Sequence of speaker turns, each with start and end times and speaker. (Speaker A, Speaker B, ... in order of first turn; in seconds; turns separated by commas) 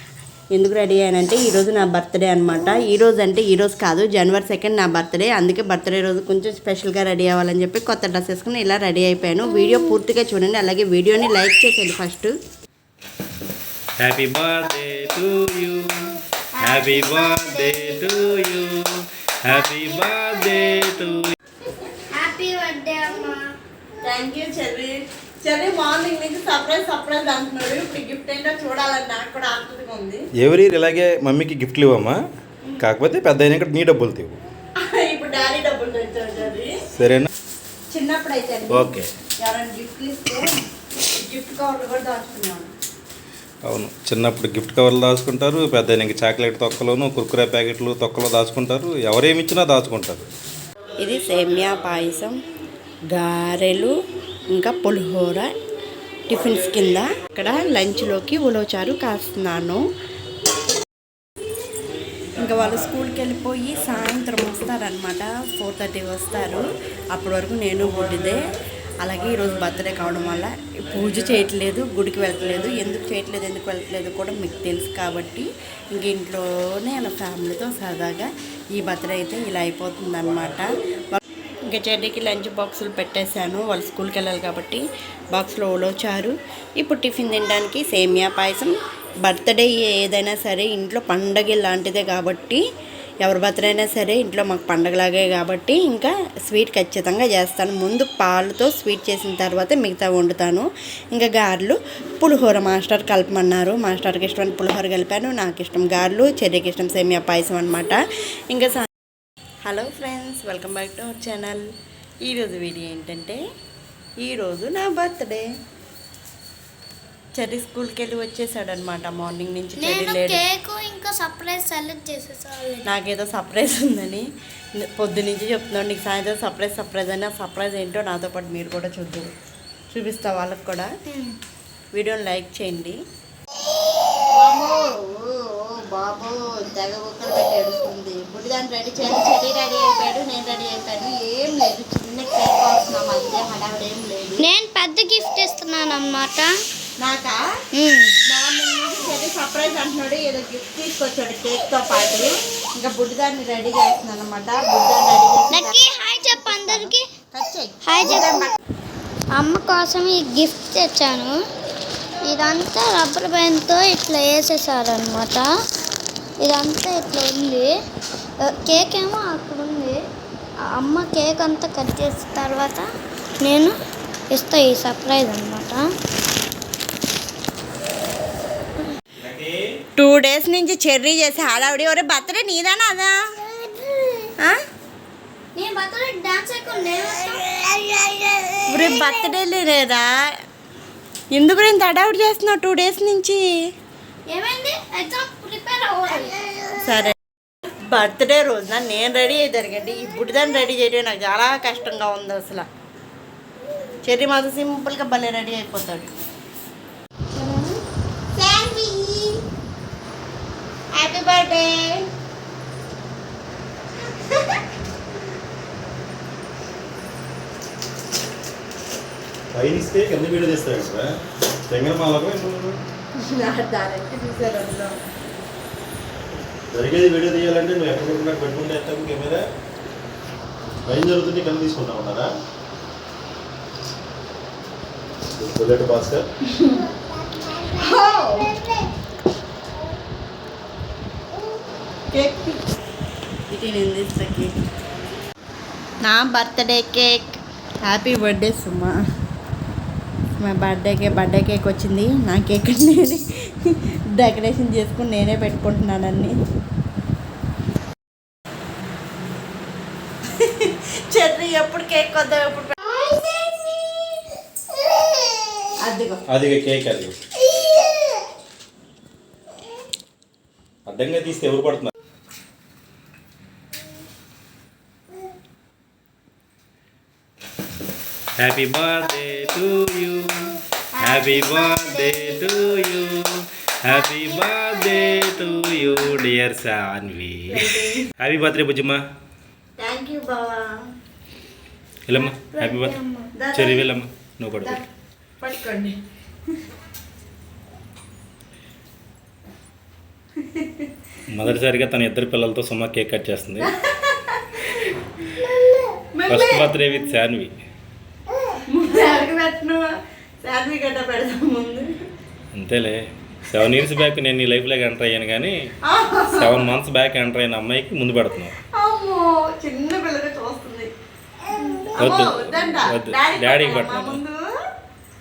Speaker A: 0.5-12.3, Speaker B: 14.0-21.3, Speaker C: 16.6-18.0, Speaker C: 22.1-23.5, Speaker A: 24.0-30.2, Speaker B: 30.4-32.2, Speaker B: 32.8-34.4, Speaker A: 34.8-36.7, Speaker B: 37.0-37.3, Speaker A: 37.9-38.9, Speaker B: 38.7-39.1, Speaker A: 39.4-40.6, Speaker A: 41.1-42.7, Speaker B: 43.7-50.3, Speaker A: 51.0-52.4, Speaker A: 53.1-54.0, Speaker A: 54.5-55.5, Speaker A: 56.3-59.9, Speaker A: 62.4-68.4, Speaker A: 69.0-92.6, Speaker A: 93.2-108.0, Speaker A: 108.5-108.9, Speaker A: 109.7-111.7, Speaker A: 112.2-113.4, Speaker A: 114.2-115.5, Speaker A: 117.3-120.4, Speaker C: 119.8-122.8, Speaker A: 122.8-129.3, Speaker A: 129.9-130.9, Speaker C: 131.1-131.3, Speaker A: 131.9-133.0, Speaker A: 134.3-144.4, Speaker C: 144.4-146.5, Speaker A: 147.0-147.4, Speaker C: 147.7-148.2, Speaker A: 148.3-158.5, Speaker C: 155.5-157.1, Speaker C: 157.8-158.5, Speaker C: 159.3-161.3, Speaker C: 162.2-165.5, Speaker C: 166.4-167.7, Speaker C: 168.4-170.0, Speaker C: 170.6-172.8, Speaker C: 173.4-173.8, Speaker C: 174.3-175.9, Speaker B: 179.2-179.7, Speaker A: 180.0-183.2, Speaker C: 183.5-184.3, Speaker C: 185.5-189.2, Speaker A: 188.7-190.1, Speaker A: 191.3-193.4, Speaker C: 194.3-196.8, Speaker A: 196.8-197.1, Speaker A: 197.9-202.7, Speaker A: 204.0-206.1, Speaker A: 207.3-207.8, Speaker A: 208.3-209.4, Speaker A: 210.9-212.1, Speaker A: 214.2-214.6, Speaker B: 219.5-221.1, Speaker B: 221.7-222.8, Speaker A: 223.2-224.9, Speaker B: 226.7-229.4, Speaker B: 230.8-232.3, Speaker B: 235.3-236.3, Speaker A: 236.5-236.9, Speaker C: 237.2-237.9, Speaker A: 237.7-238.5, Speaker C: 238.5-238.8, Speaker A: 242.1-242.6, Speaker A: 243.5-244.5, Speaker A: 246.0-249.0, Speaker A: 250.4-256.4, Speaker A: 260.4-262.9, Speaker C: 263.1-263.4, Speaker A: 265.8-266.2, Speaker B: 266.3-267.1, Speaker B: 270.9-271.9, Speaker B: 278.4-289.0, Speaker C: 281.0-282.4, Speaker C: 285.1-285.9, Speaker A: 287.5-288.1, Speaker A: 289.8-290.9, Speaker B: 292.1-293.0, Speaker C: 292.2-293.3, Speaker A: 293.4-293.9, Speaker B: 293.5-294.8, Speaker A: 295.4-296.0, Speaker A: 300.4-300.9, Speaker B: 301.3-303.7, Speaker A: 303.6-306.8, Speaker B: 306.3-307.5, Speaker A: 308.7-309.9, Speaker A: 310.4-311.9, Speaker B: 312.5-315.7, Speaker A: 315.9-316.7, Speaker B: 316.3-318.6, Speaker A: 318.8-320.9, Speaker A: 321.5-324.4, Speaker C: 321.6-322.3, Speaker B: 322.0-324.2